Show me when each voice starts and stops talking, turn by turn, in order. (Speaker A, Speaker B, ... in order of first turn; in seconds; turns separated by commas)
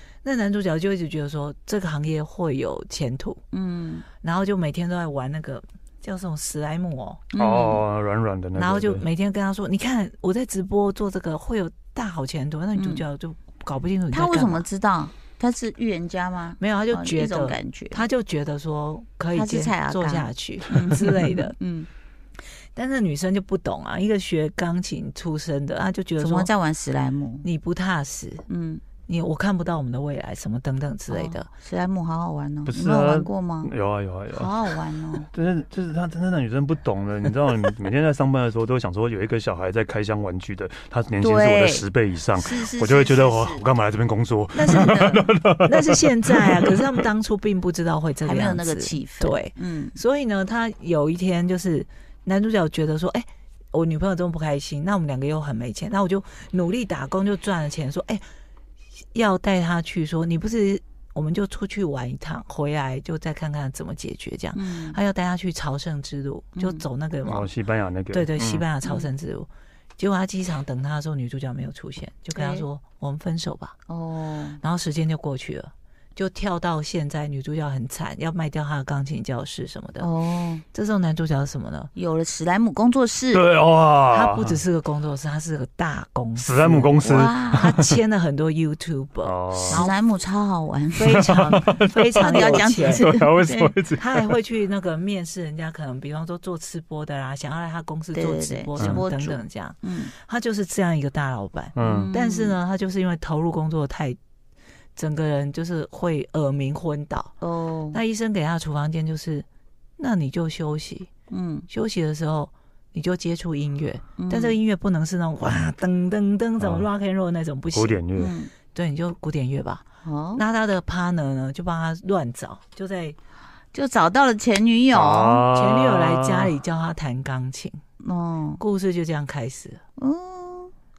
Speaker A: 0.2-3.4, Speaker B: 3.5-4.0, Speaker A: 4.2-7.2, Speaker B: 7.3-7.8, Speaker C: 7.4-9.0, Speaker A: 8.6-14.6, Speaker B: 12.8-13.0, Speaker B: 14.1-18.0, Speaker A: 16.6-21.5, Speaker B: 19.3-21.9, Speaker A: 22.7-26.5, Speaker B: 26.2-27.5, Speaker A: 27.4-28.4, Speaker B: 28.5-28.8, Speaker A: 29.0-31.5, Speaker B: 31.1-33.7, Speaker C: 32.7-34.5, Speaker B: 34.3-35.3, Speaker C: 35.3-46.9, Speaker B: 41.2-41.8, Speaker B: 42.4-43.6, Speaker A: 44.5-58.2, Speaker B: 44.7-45.3, Speaker B: 48.2-50.0, Speaker A: 59.1-67.5, Speaker B: 64.5-65.0, Speaker B: 66.5-66.8, Speaker C: 67.2-68.7, Speaker A: 68.1-73.8, Speaker B: 72.3-72.6, Speaker B: 73.9-74.6, Speaker A: 74.6-80.1, Speaker B: 80.0-80.6, Speaker A: 80.7-81.9, Speaker B: 81.9-83.4, Speaker C: 83.3-84.6, Speaker A: 84.1-89.9, Speaker C: 86.4-88.0, Speaker B: 87.0-87.7, Speaker C: 89.2-89.9, Speaker B: 89.6-91.3, Speaker A: 91.0-93.0, Speaker C: 91.1-94.3, Speaker B: 92.2-93.7, Speaker A: 94.0-104.2, Speaker B: 98.1-100.1, Speaker C: 101.8-102.1, Speaker B: 101.8-102.5, Speaker A: 105.0-107.3, Speaker B: 107.4-108.0, Speaker A: 107.9-109.5, Speaker A: 110.0-111.1, Speaker B: 111.3-111.7, Speaker A: 111.7-118.0, Speaker B: 114.2-114.5, Speaker C: 116.6-116.9, Speaker C: 117.7-118.3, Speaker B: 118.2-118.5, Speaker A: 118.7-123.2, Speaker B: 120.0-120.4, Speaker B: 123.7-125.4, Speaker C: 124.9-126.5, Speaker A: 125.5-127.8, Speaker B: 128.0-128.6, Speaker A: 128.6-129.8, Speaker B: 130.0-130.7